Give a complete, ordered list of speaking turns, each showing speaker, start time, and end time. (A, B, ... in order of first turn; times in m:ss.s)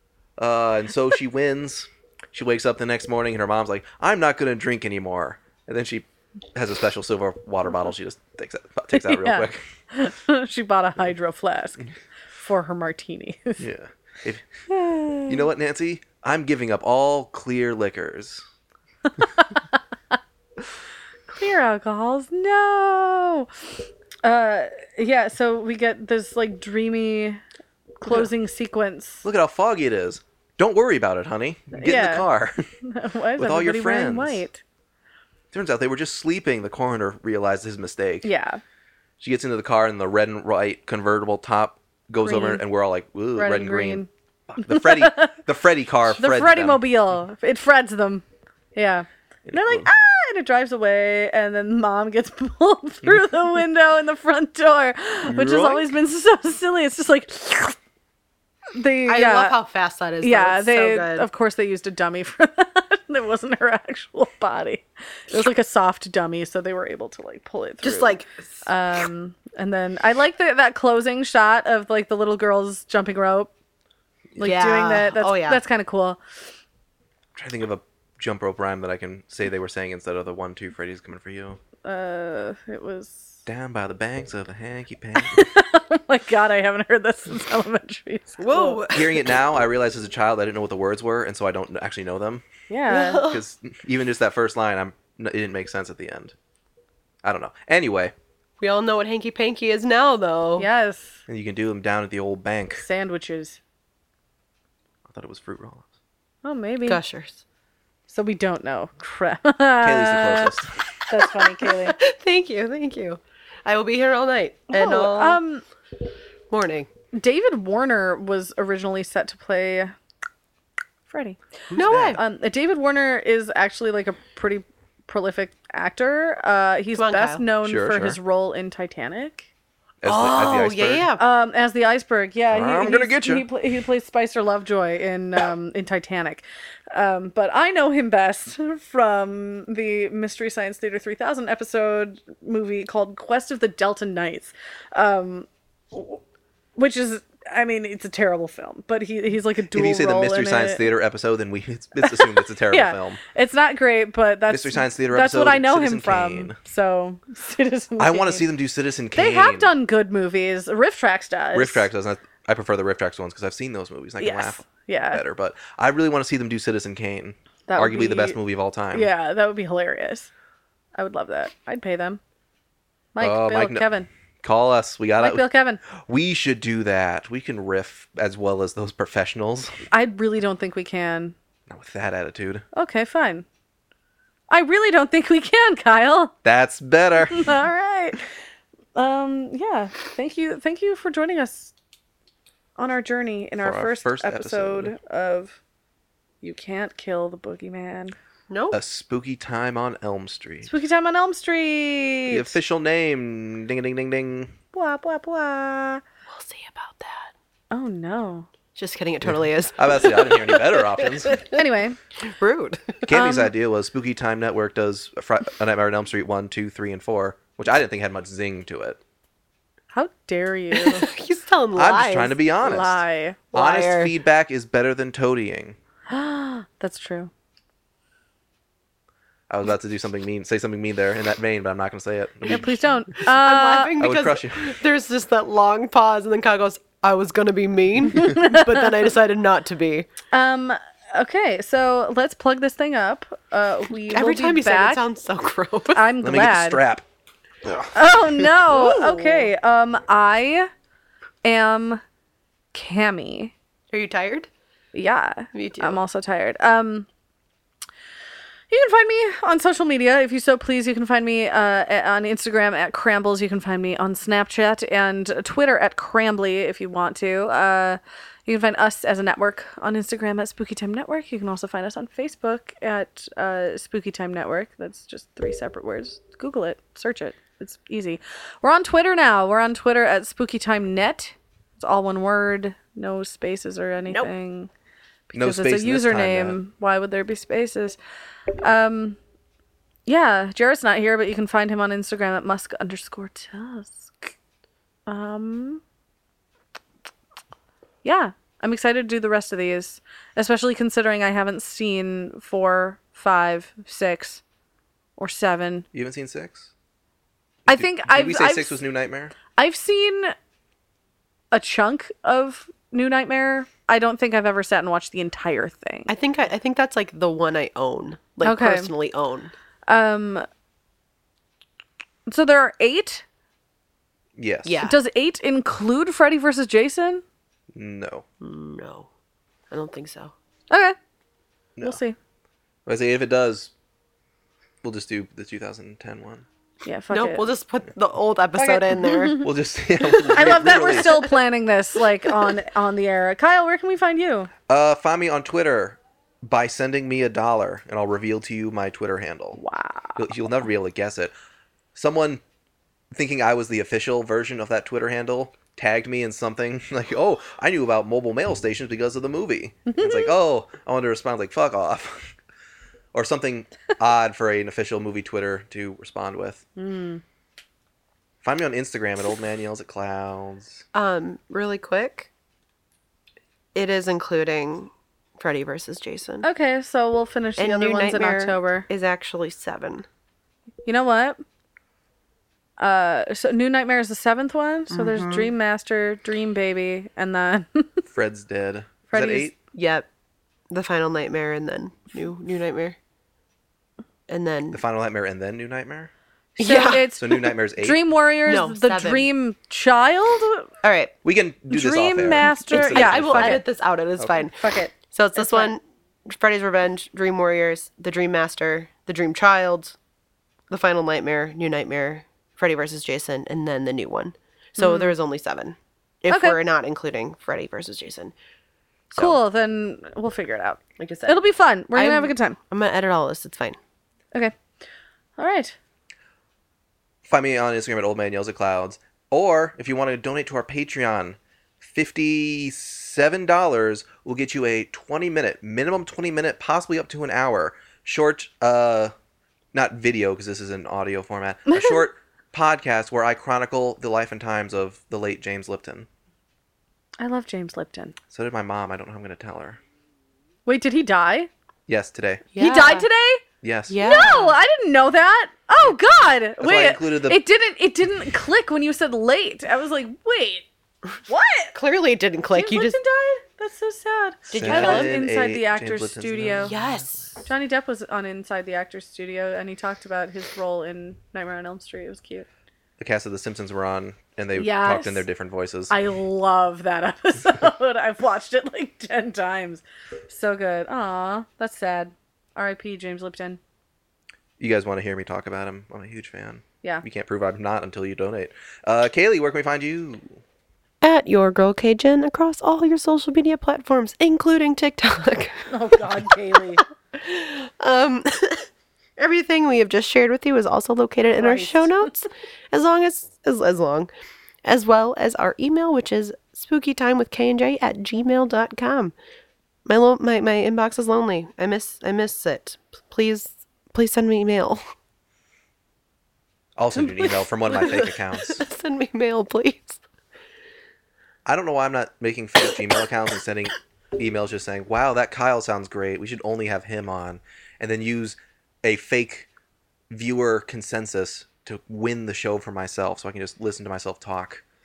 0:00.4-0:09.6 A
0:08.9-0:13.6 B
0:13.6-0:14.5 A
0:14.7-0:15.5 B
0:15.3-0:18.5 A
0:19.2-0:19.8 B
0:21.3-0:23.5 B
0:24.2-0:27.4 B
0:28.0-0:29.3 B
0:29.2-0:32.6 A
0:31.7-0:32.3 B
0:32.8-0:34.6 B
0:33.4-0:34.4 A
0:35.5-0:38.3 A
0:38.2-0:38.6 B
0:39.2-0:46.8 A
0:42.2-0:42.6 B
0:43.4-0:44.1 B
0:44.6-0:45.3 B
0:46.1-0:48.2 B
0:48.8-0:57.8 B
0:49.5-0:49.9 A
0:55.3-0:55.9 A
0:58.7-0:59.6 B
0:59.1-1:01.3 C
1:00.2-1:13.5 B
1:07.8-1:08.6 C
1:14.4-1:16.2 B
1:14.4-1:15.6 C
1:17.4-1:21.6 A
1:21.8-1:23.4 B
1:23.5-1:25.5 A
1:25.2-1:28.8 B
1:28.4-1:29.4 C
1:28.9-1:32.4 A
1:32.7-1:33.3 B
1:32.9-1:33.4 C
1:33.2-1:36.4 A
1:37.2-1:38.1 A
1:38.6-1:40.7 C
1:40.6-1:41.2 B
1:41.3-1:42.8 A
1:42.8-1:43.6 B
1:45.1-1:45.9 A
1:46.4-1:47.0 B
1:46.9-1:47.4 C
1:48.1-1:50.5 B
1:49.8-1:50.7 A
1:51.1-1:52.0 B
1:51.4-1:55.4 C
1:54.7-1:55.6 B
1:56.5-1:56.9 C
1:57.1-1:59.9 B
2:01.1-2:09.5 B
2:01.7-2:02.2 A
2:01.7-2:02.2 C
2:07.0-2:07.4 C
2:07.6-2:08.2 A
2:10.0-2:11.1 A
2:10.0-2:11.2 C
2:11.2-2:26.2 B
2:12.5-2:13.5 A
2:26.8-2:30.9 B
2:29.7-2:33.2 A
2:32.0-2:38.5 B
2:34.5-2:36.6 A
2:38.0-2:39.7 A
2:39.2-2:41.9 B
2:41.5-2:49.1 A
2:44.2-2:45.2 B
2:47.7-2:48.4 B
2:48.9-2:50.3 B
2:51.0-2:52.2 B
2:53.1-2:54.1 B
2:53.2-2:53.9 A
2:54.4-2:59.7 A
2:55.2-2:55.8 B
2:59.9-3:01.4 B
3:01.7-3:02.6 A
3:02.8-3:03.5 B
3:04.5-3:06.3 B
3:06.4-3:07.6 A
3:07.3-3:08.3 B
3:09.0-3:11.7 B
3:12.8-3:15.6 B
3:13.6-3:14.9 A
3:16.4-3:18.2 B
3:18.5-3:18.8 C
3:18.7-3:20.7 A
3:20.6-3:22.6 B
3:22.3-3:24.5 A
3:24.7-3:26.0 B
3:26.3-3:27.3 C
3:27.7-3:28.5 B
3:28.8-3:31.6 C
3:29.2-3:31.4 A
3:31.4-3:32.0 B
3:32.2-3:33.0 C
3:33.1-3:39.0 A
3:33.1-3:33.5 B
3:39.9-3:41.1 B
3:40.7-3:42.4 C
3:41.8-3:45.8 A
3:42.6-3:43.4 B
3:43.5-3:44.1 C
3:46.1-3:47.3 B
3:49.5-3:52.8 A
3:52.5-3:54.0 B
3:53.2-4:00.1 C
3:54.0-3:54.8 A
3:58.1-3:59.0 B
4:00.3-4:05.0 B
4:04.0-4:06.1 C
4:05.9-4:06.8 B
4:06.2-4:07.0 A
4:07.9-4:10.7 B
4:08.7-4:09.5 C
4:11.4-4:12.0 B
4:12.7-4:13.5 B
4:13.9-4:14.5 C
4:14.9-4:17.1 B
4:15.5-4:16.0 C
4:18.7-4:44.7 B
4:45.3-4:48.0 B
4:45.3-4:46.6 A
4:48.6-4:49.2 B
4:50.1-4:54.3 B
4:55.1-4:55.8 B
4:58.0-5:04.4 B
5:05.2-5:05.9 B
5:05.9-5:06.7 A
5:07.7-5:09.3 A
5:07.7-5:08.8 B
5:09.6-5:10.4 B
5:11.5-5:16.1 B
5:16.1-5:19.5 C
5:18.4-5:18.9 B
5:19.9-5:20.5 B
5:22.3-5:23.2 B
5:24.4-5:24.8 A
5:24.7-5:25.0 C
5:24.8-5:27.2 B
5:27.7-5:28.2 A
5:28.4-5:29.1 C
5:29.7-5:30.3 C
5:30.7-5:31.0 B
5:31.8-5:32.0 A
5:31.8-5:32.2 B
5:32.9-5:33.7 A
5:34.8-5:36.5 A
5:36.8-5:37.6 B
5:37.1-5:39.4 C
5:38.6-5:39.5 B
5:39.4-5:41.2 A
5:40.1-5:41.3 C
5:40.3-5:44.5 B
5:44.7-5:49.6 A
5:49.6-5:50.3 B
5:50.2-5:51.3 A
5:52.0-5:52.4 A
5:53.1-6:02.3 A
5:59.9-6:00.3 B
6:03.1-6:06.6 A
6:06.8-6:07.2 B
6:08.4-6:10.8 A
6:10.9-6:12.3 C
6:13.7-6:16.5 C
6:16.4-6:18.9 B
6:17.6-6:20.1 C
6:20.9-6:21.4 B
6:22.8-6:28.0 B
6:24.9-6:25.5 C
6:28.1-6:29.6 A
6:29.1-6:29.5 B
6:29.7-6:30.1 C
6:30.7-6:33.0 C
6:34.3-6:34.8 C
6:34.7-6:36.1 A
6:36.6-6:40.7 B
6:36.6-6:37.5 C
6:37.2-6:38.0 A
6:38.5-6:39.3 C
6:40.8-6:41.1 C
6:41.2-6:43.6 A
6:41.7-6:43.6 B
6:42.4-6:50.0 C
6:44.4-6:45.7 B
6:50.7-6:58.3 C
6:54.8-6:55.1 B
6:56.3-6:56.6 B
6:59.1-7:02.6 B
6:59.1-6:59.4 C
7:01.0-7:03.8 C
7:05.4-7:05.8 B
7:07.2-7:19.1 A
7:19.7-7:26.1 A
7:21.7-7:22.1 B
7:27.2-7:28.2 B
7:28.3-7:29.8 A
7:30.7-7:31.5 B
7:31.9-7:32.4 A
7:32.5-7:33.1 C
7:32.6-7:33.4 B
7:33.6-7:34.3 A
7:33.9-7:34.5 C
7:34.0-7:40.7 B
7:36.6-7:37.4 A
7:41.3-7:41.8 B
7:41.8-7:43.0 C
7:42.5-7:46.7 B
7:44.5-7:45.1 C
7:44.5-7:47.2 A
7:46.6-7:47.4 C
7:47.4-7:52.5 B
7:53.0-7:55.9 A
7:54.6-7:55.2 B
7:55.9-8:03.6 B
8:04.6-8:10.4 A
8:11.0-8:18.7 C
8:15.7-8:16.8 B
8:19.2-8:24.1 C
8:21.3-8:22.2 B
8:24.6-8:29.1 C
8:29.9-8:34.8 C
8:36.8-8:38.6 A
8:37.0-8:37.4 B
8:37.8-8:40.0 C
8:41.4-8:49.5 A
8:50.1-8:54.6 A